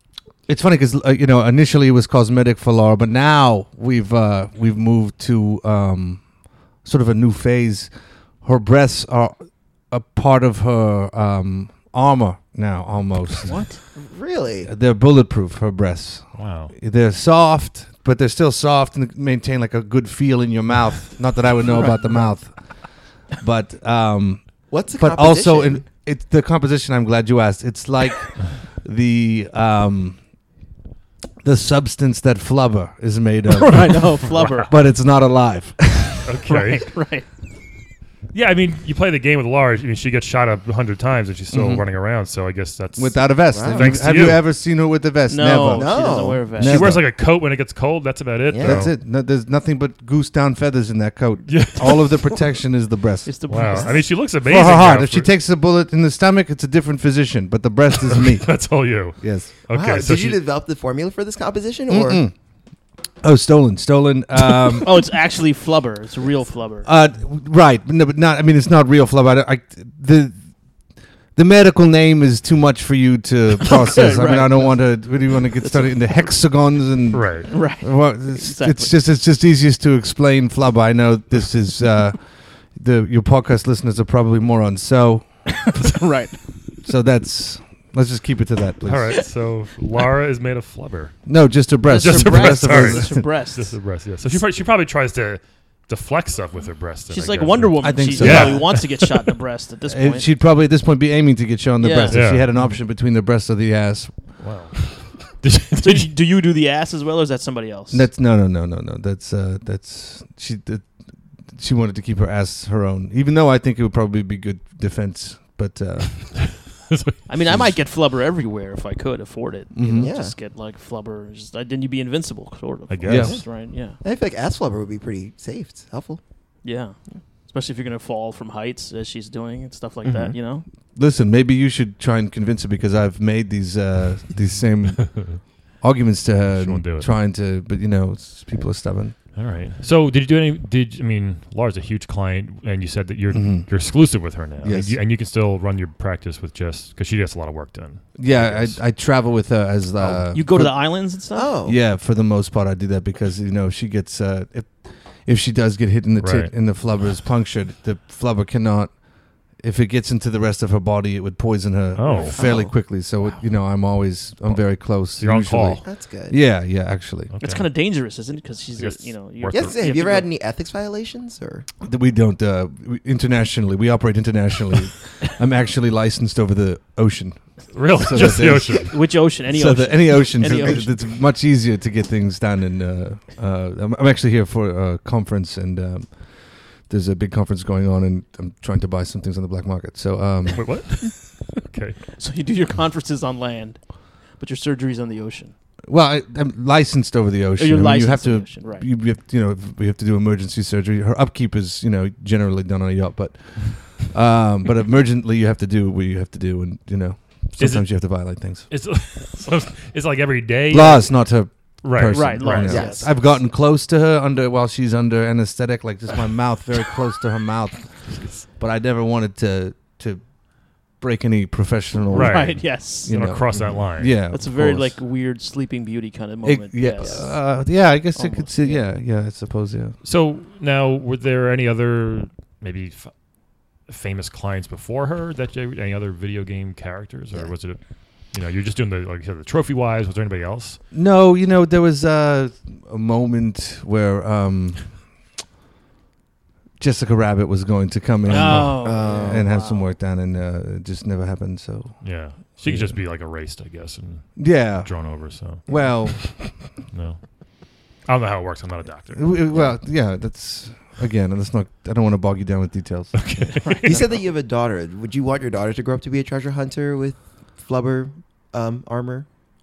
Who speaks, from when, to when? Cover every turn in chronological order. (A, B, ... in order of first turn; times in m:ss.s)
0:00.5-0:13.6 A
0:13.4-0:13.8 B
0:14.0-0:14.7 C
0:14.6-0:30.2 A
0:16.4-0:16.7 D
0:21.7-0:22.3 B
0:24.7-0:25.9 C
0:31.4-0:36.4 A
0:33.6-0:34.7 B
0:34.3-0:34.6 D
0:36.2-0:36.9 D
0:36.5-0:37.3 B
0:38.3-0:44.5 D
0:41.5-0:41.8 A
0:43.0-0:47.1 A
0:43.5-0:43.9 C
0:45.3-0:46.9 B
0:45.7-0:46.5 C
0:46.6-0:48.9 D
0:48.5-0:48.9 C
0:48.6-0:59.5 A
0:51.5-0:52.4 D
0:53.3-0:54.0 B
0:53.5-0:55.3 D
0:58.2-1:00.4 D
0:59.7-1:02.2 C
1:01.9-1:02.4 A
1:03.2-1:05.0 A
1:04.8-1:06.9 B
1:06.8-1:10.8 A
1:11.3-1:25.6 A
1:13.6-1:16.0 B
1:17.1-1:17.5 D
1:17.5-1:18.9 B
1:25.6-1:26.4 B
1:26.8-1:29.3 A
1:28.8-1:31.2 D
1:31.3-1:33.3 A
1:31.9-1:33.9 B
1:31.9-1:39.1 D
1:37.1-1:40.3 B
1:37.8-1:38.8 A
1:39.9-1:44.4 A
1:41.8-1:42.7 B
1:42.1-1:42.6 D
1:44.4-1:46.1 D
1:45.8-1:48.1 B
1:47.9-1:56.7 A
1:56.9-1:57.2 D
1:57.3-2:04.0 B
1:57.4-1:57.8 A
1:59.7-2:00.1 A
2:00.0-2:00.4 C
2:02.9-2:03.3 D
2:03.0-2:03.4 A
2:03.2-2:06.2 C
2:06.6-2:10.7 B
2:10.0-2:10.4 C
2:10.9-2:19.2 A
2:16.5-2:17.2 D
2:19.3-2:28.9 D
2:23.3-2:25.0 A
2:28.2-2:31.1 A
2:30.0-2:30.2 D
2:30.3-2:31.6 B
2:31.3-2:31.8 C
2:31.6-2:47.3 A
2:36.2-2:36.5 D
2:42.0-2:42.4 D
2:42.3-2:42.8 C
2:44.4-2:45.8 D
2:45.8-2:46.4 C
2:47.3-2:47.7 D
2:47.4-2:50.3 B
2:48.8-2:49.9 D
2:49.5-2:51.7 C
2:51.8-3:10.8 A
2:57.7-2:59.0 D
2:58.1-3:01.1 B
3:10.6-3:12.0 D
3:12.1-3:15.5 B
3:15.9-3:28.7 A
3:17.6-3:18.9 B
3:27.6-3:32.8 D
3:30.7-3:45.0 A
3:32.1-3:33.1 B
3:32.6-3:33.1 C
3:38.1-3:38.4 D
3:42.1-3:44.2 D
3:42.1-3:43.2 B
3:44.3-3:48.9 B
3:46.4-3:50.0 A
3:47.0-3:47.3 C
3:50.0-4:00.8 D
4:00.9-4:05.2 A
4:06.8-4:13.0 A
4:08.3-4:09.9 B
4:08.4-4:09.5 C
4:12.0-4:19.5 D
4:14.4-4:16.7 A
4:19.1-4:23.6 A
4:23.2-4:24.1 D
4:23.6-4:24.2 B
4:23.8-4:29.3 C